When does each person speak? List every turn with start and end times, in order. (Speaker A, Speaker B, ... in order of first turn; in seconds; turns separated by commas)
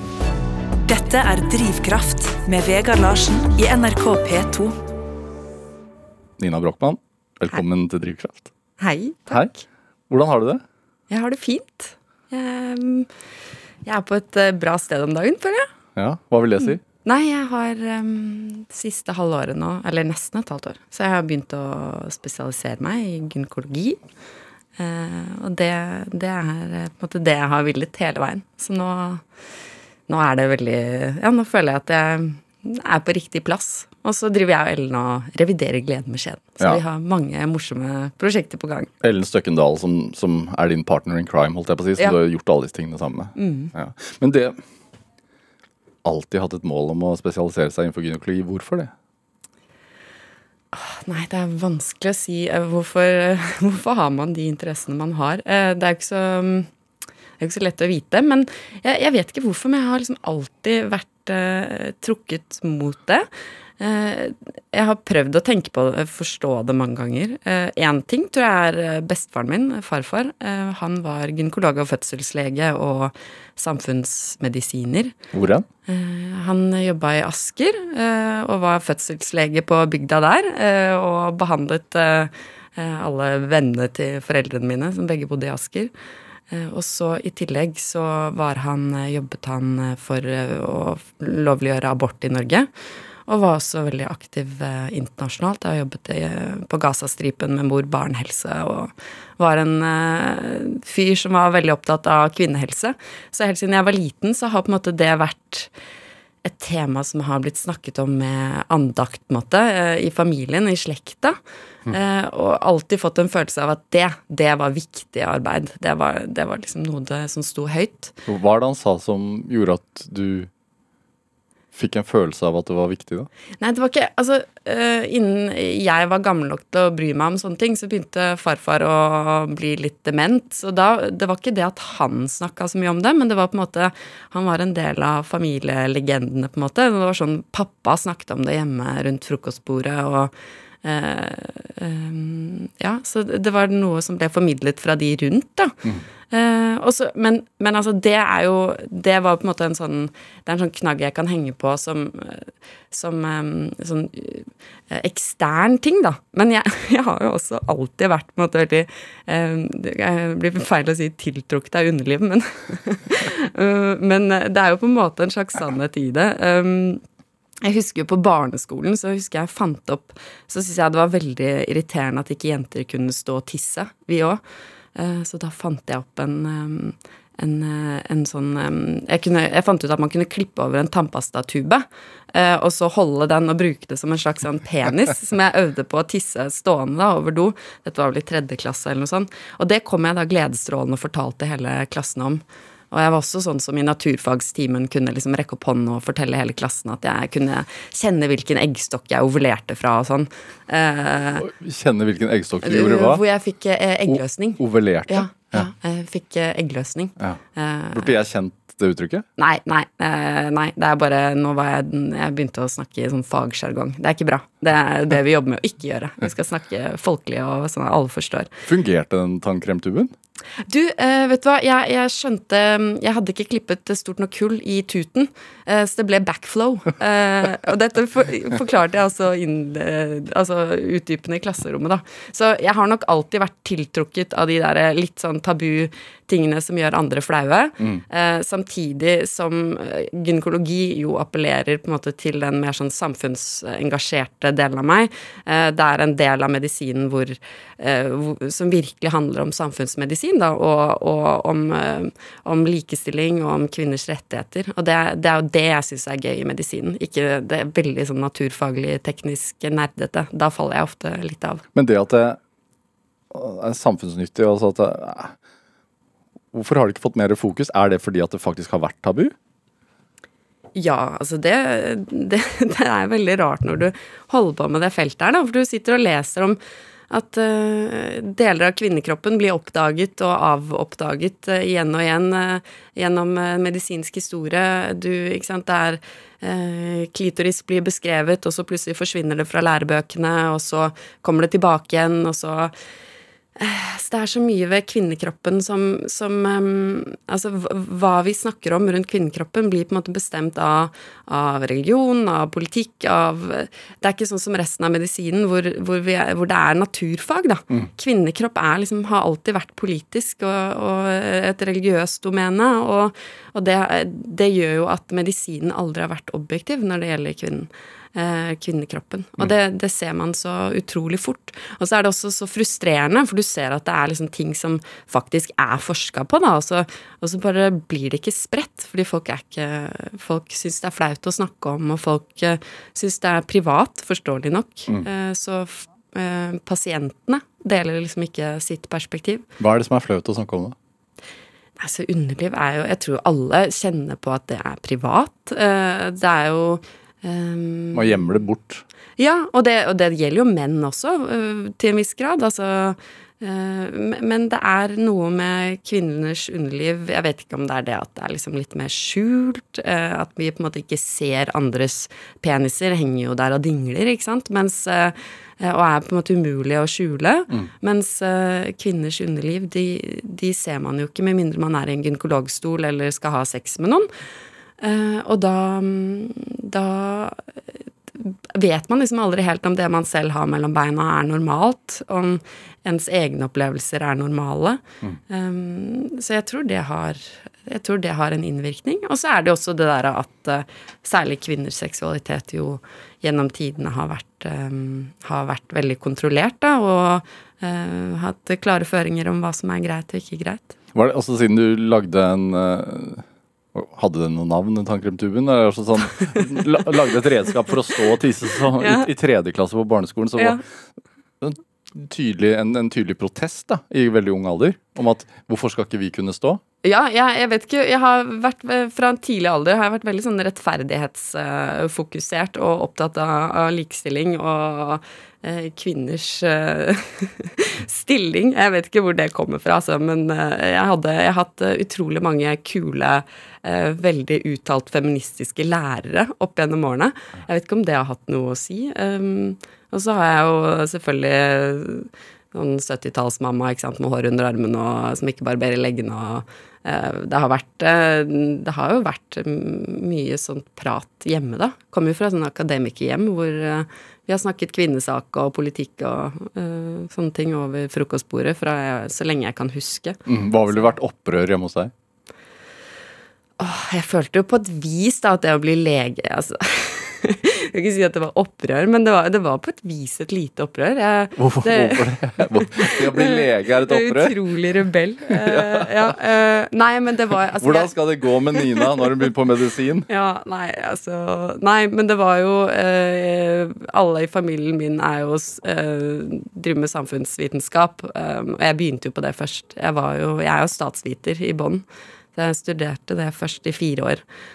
Speaker A: 0.9-4.8, Speaker B: 6.4-8.5, Speaker C: 8.8-9.6, Speaker B: 10.1-10.6, Speaker C: 11.1-13.1, Speaker C: 13.8-15.7, Speaker B: 15.9-16.8, Speaker C: 16.6-24.0, Speaker C: 24.8-29.2, Speaker C: 30.1-38.9, Speaker B: 39.0-44.6, Speaker C: 43.4-43.7, Speaker B: 46.0-48.9, Speaker C: 50.7-56.7, Speaker C: 57.4-63.3, Speaker C: 63.8-75.1, Speaker B: 75.3-75.7, Speaker C: 75.9-85.9, Speaker C: 86.5-92.7, Speaker C: 93.3-105.7, Speaker C: 106.4-111.4, Speaker C: 111.9-118.2, Speaker B: 118.2-120.5, Speaker B: 121.7-123.3, Speaker C: 123.6-145.8, Speaker C: 146.3-167.0, Speaker C: 167.6-174.4, Speaker C: 174.9-201.4, Speaker B: 201.4-203.2, Speaker C: 202.6-208.1, Speaker B: 204.1-205.7, Speaker B: 207.9-209.2, Speaker C: 209.4-218.5, Speaker B: 218.7-220.1, Speaker C: 220.7-261.6, Speaker B: 261.7-262.4, Speaker B: 263.3-265.3, Speaker B: 266.5-269.3, Speaker C: 270.7-276.6, Speaker C: 277.1-292.7, Speaker C: 293.6-339.4, Speaker B: 339.6-340.8, Speaker C: 341.8-348.3, Speaker B: 347.9-348.8, Speaker C: 349.2-374.1, Speaker C: 374.8-377.4, Speaker C: 378.1-400.7, Speaker B: 400.9-410.6, Speaker C: 408.8-409.1, Speaker B: 411.4-416.6, Speaker C: 416.8-460.2, Speaker B: 460.2-461.9, Speaker C: 463.6-477.9, Speaker B: 471.4-474.4, Speaker B: 475.3-476.1, Speaker B: 477.6-480.1, Speaker C: 478.5-479.0, Speaker C: 480.1-494.2